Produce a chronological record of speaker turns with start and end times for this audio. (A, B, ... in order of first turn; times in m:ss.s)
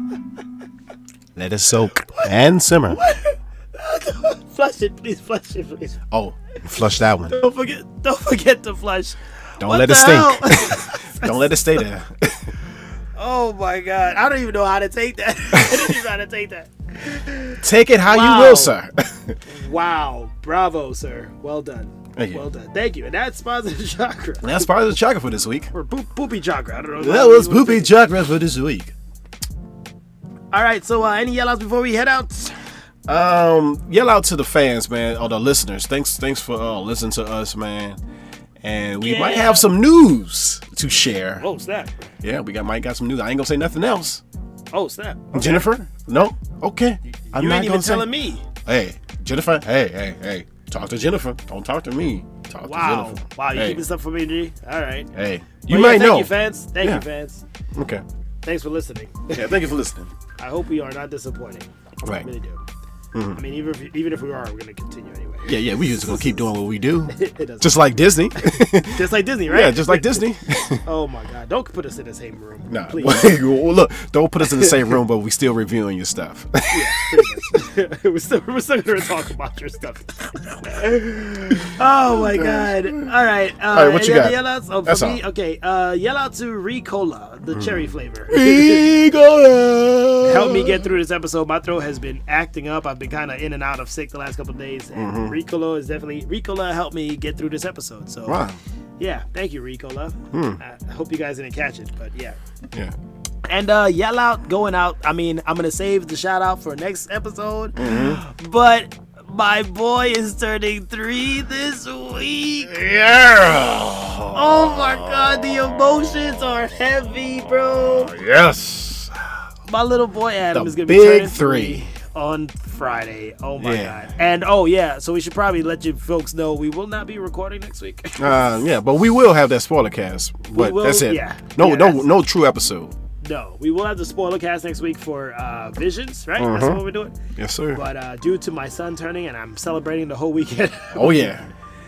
0:01.3-0:03.0 A
0:02.9-0:06.0 B
0:06.1-0:07.4 A
0:06.8-0:11.8 B
0:09.6-0:12.5 A
0:13.2-0:18.8 B
0:15.5-0:16.0 A
0:17.6-0:19.4 A
0:19.4-0:24.7 B
0:22.1-0:22.4 A
0:24.4-0:25.7 A
0:25.7-0:27.9 B
0:27.0-0:28.9 A
0:30.5-0:32.6 B
0:33.1-0:38.0 A
0:38.6-0:41.4 A
0:39.0-0:39.7 B
0:41.4-0:42.1 B
0:42.2-0:44.2 A
0:44.7-0:45.7 B
0:45.3-0:48.1 A
0:47.3-0:48.4 B
0:48.6-0:53.8 A
0:52.6-0:55.1 B
0:55.1-0:57.0 A
0:55.7-0:57.4 B
0:57.7-0:58.0 A
0:58.4-0:59.5 B
0:59.3-1:00.1 A
1:00.4-1:01.7 B
1:02.2-1:02.6 B
1:03.1-1:03.4 A
1:03.3-1:06.5 B
1:05.4-1:10.8 A
1:07.1-1:10.2 B
1:10.8-1:13.4 B
1:12.7-1:17.4 A
1:16.7-1:21.0 B
1:20.7-1:23.1 A
1:21.5-1:28.9 B
1:23.7-1:25.2 A
1:27.5-1:30.8 A
1:30.2-1:38.4 B
1:34.9-1:35.4 A
1:38.2-1:38.6 A
1:39.0-1:42.4 B
1:40.3-1:40.6 A
1:43.5-1:52.8 B
1:47.8-1:48.2 A
1:52.7-1:55.1 A
1:54.3-1:58.1 B
1:58.0-1:59.1 A
1:59.7-2:08.4 B
2:00.5-2:01.9 A
2:03.6-2:04.0 A
2:08.2-2:12.9 A
2:10.5-2:12.0 B
2:13.2-2:17.2 B
2:16.4-2:17.8 A
2:17.7-2:21.3 B
2:20.9-2:21.5 A